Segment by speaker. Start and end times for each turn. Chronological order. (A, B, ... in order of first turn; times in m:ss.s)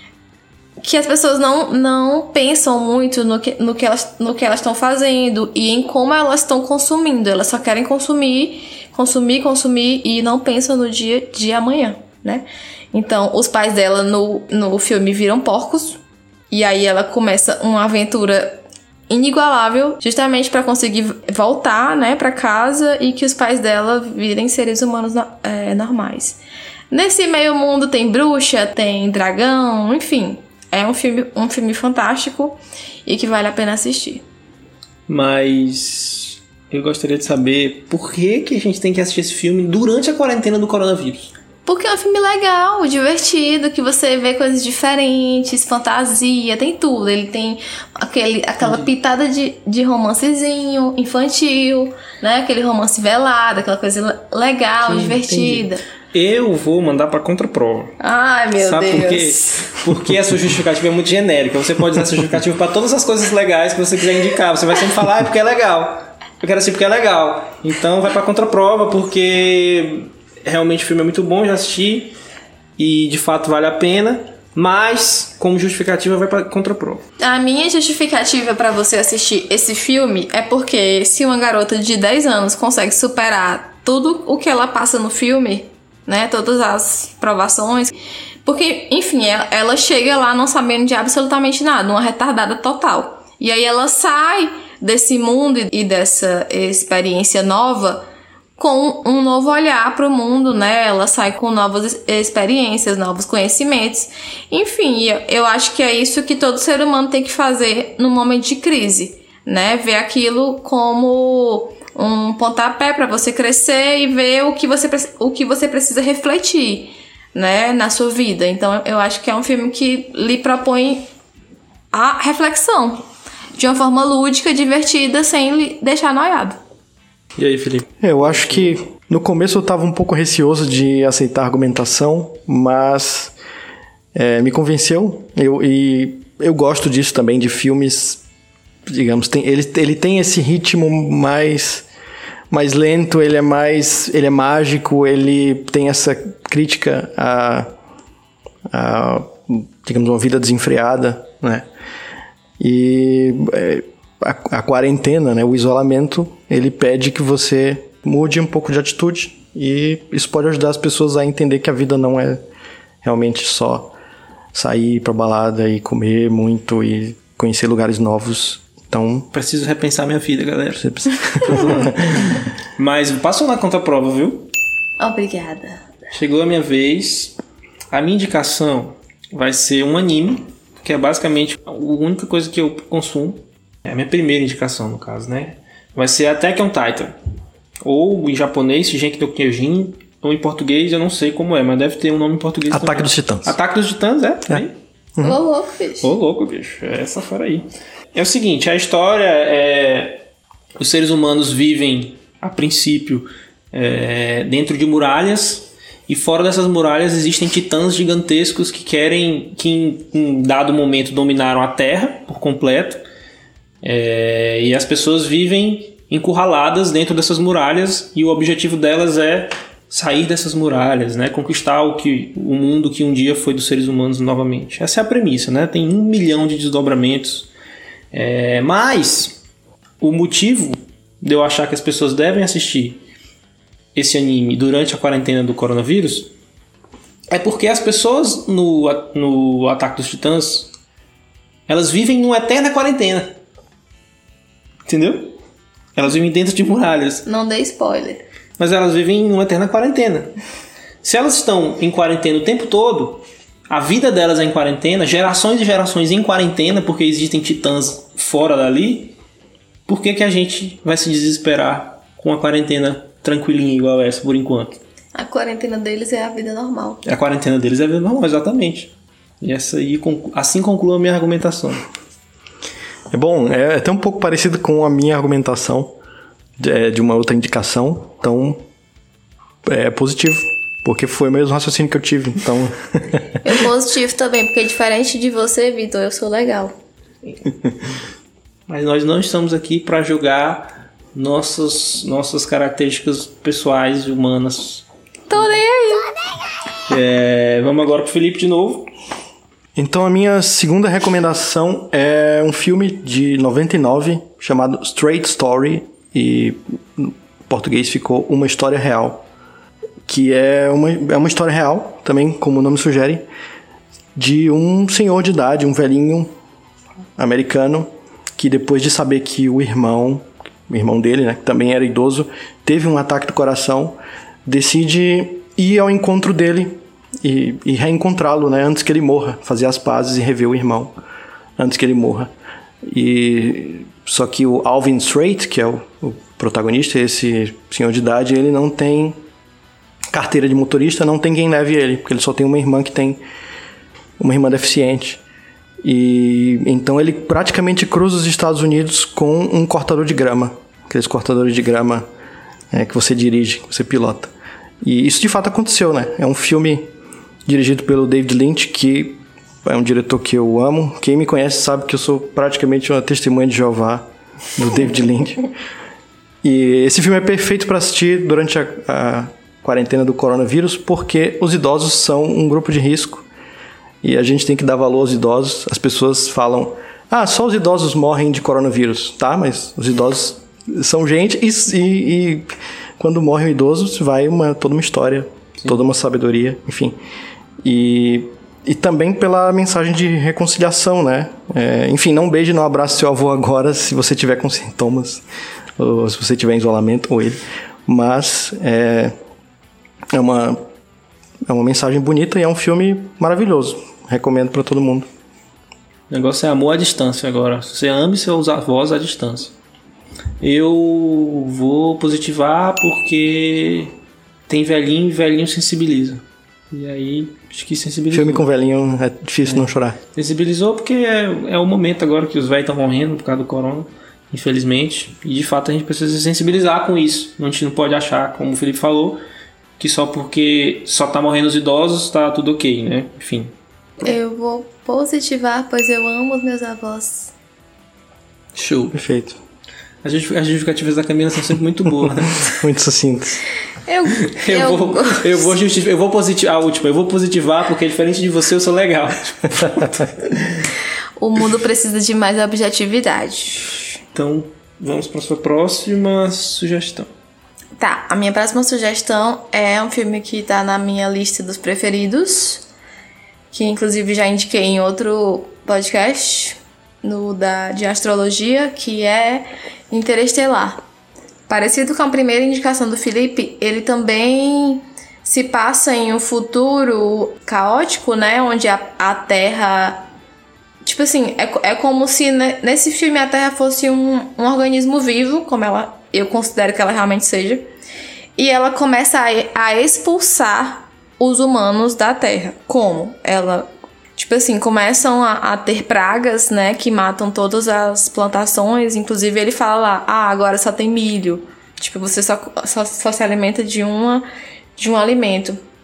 0:00.8-0:16.0 A
0:16.5-0:26.4 A
0:26.9-0:34.2 A
0:35.1-0:41.3 B
0:41.6-0:55.8 A
0:48.6-0:48.9 B
0:54.8-0:58.0 B
0:58.0-0:59.6 A
0:58.6-1:12.1 B
1:12.8-1:17.0 B
1:17.2-1:38.0 A
1:38.6-2:01.0 A
2:01.9-2:03.0 A
2:03.6-2:06.6 A
2:07.4-2:08.7 B
2:08.0-2:13.3 C
2:14.1-2:18.2 C
2:18.8-2:21.8 C
2:22.5-2:27.7 C
2:28.7-2:31.6 C
2:32.6-2:42.4 C
2:43.0-2:43.9 C
2:44.5-2:49.3 C
2:49.3-2:54.5 B
2:50.8-2:52.3 C
2:55.0-2:55.8 A
2:56.1-2:57.4 B
2:57.9-3:07.1 B
3:07.8-3:14.8 B
3:12.7-3:13.6 C
3:15.2-3:16.1 A
3:16.0-3:20.2 B
3:20.8-3:33.0 B
3:33.8-3:47.5 B
3:48.1-3:49.4 B
3:50.0-3:53.0 B
3:53.9-3:56.3 B
3:57.3-4:00.7 B
4:01.7-4:03.4 B
4:04.9-4:05.4 B
4:05.9-4:07.2 B
4:07.2-4:08.2 A
4:08.6-4:10.3 B
4:11.0-4:19.2 B
4:19.9-4:24.8 B
4:25.1-4:27.0 A
4:27.0-4:31.8 B
4:33.1-4:36.0 C
4:36.6-4:38.6 C
4:39.6-4:43.2 C
4:43.4-4:46.7 A
4:48.7-4:54.8 B
4:55.3-4:56.3 A
4:56.9-4:58.9 B
4:59.8-5:09.2 C
5:10.0-5:13.2 C
5:14.1-5:16.3 C
5:17.2-5:31.0 C
5:31.6-5:32.3 C
5:32.8-5:39.2 C
5:40.1-5:43.2 C
5:44.2-5:45.2 C
5:45.8-5:52.0 C
5:52.7-5:54.3 C
5:54.8-5:56.9 C
5:57.4-6:05.5 C
6:06.4-6:13.2 C
6:14.0-6:27.0 C
6:27.6-6:35.2 C
6:35.8-6:39.1 C
6:40.1-6:40.6 C
6:41.5-6:45.1 C
6:46.1-6:49.5 B
6:50.4-6:53.9 B
6:54.5-6:58.4 B
6:58.1-7:00.0 C
7:00.1-7:09.2 B
7:09.8-7:14.1 B
7:14.0-7:17.3 A
7:18.5-7:19.0 B
7:18.9-7:19.4 C
7:20.0-7:22.6 B
7:22.5-7:23.4 C
7:23.8-7:25.5 A
7:24.3-7:30.7 B
7:31.2-7:33.8 A
7:34.1-7:37.1 B
7:37.8-7:42.6 A
7:43.5-7:50.8 A
7:51.5-8:00.1 A
8:00.8-8:07.6 A
8:08.4-8:24.2 A
8:24.8-8:25.6 A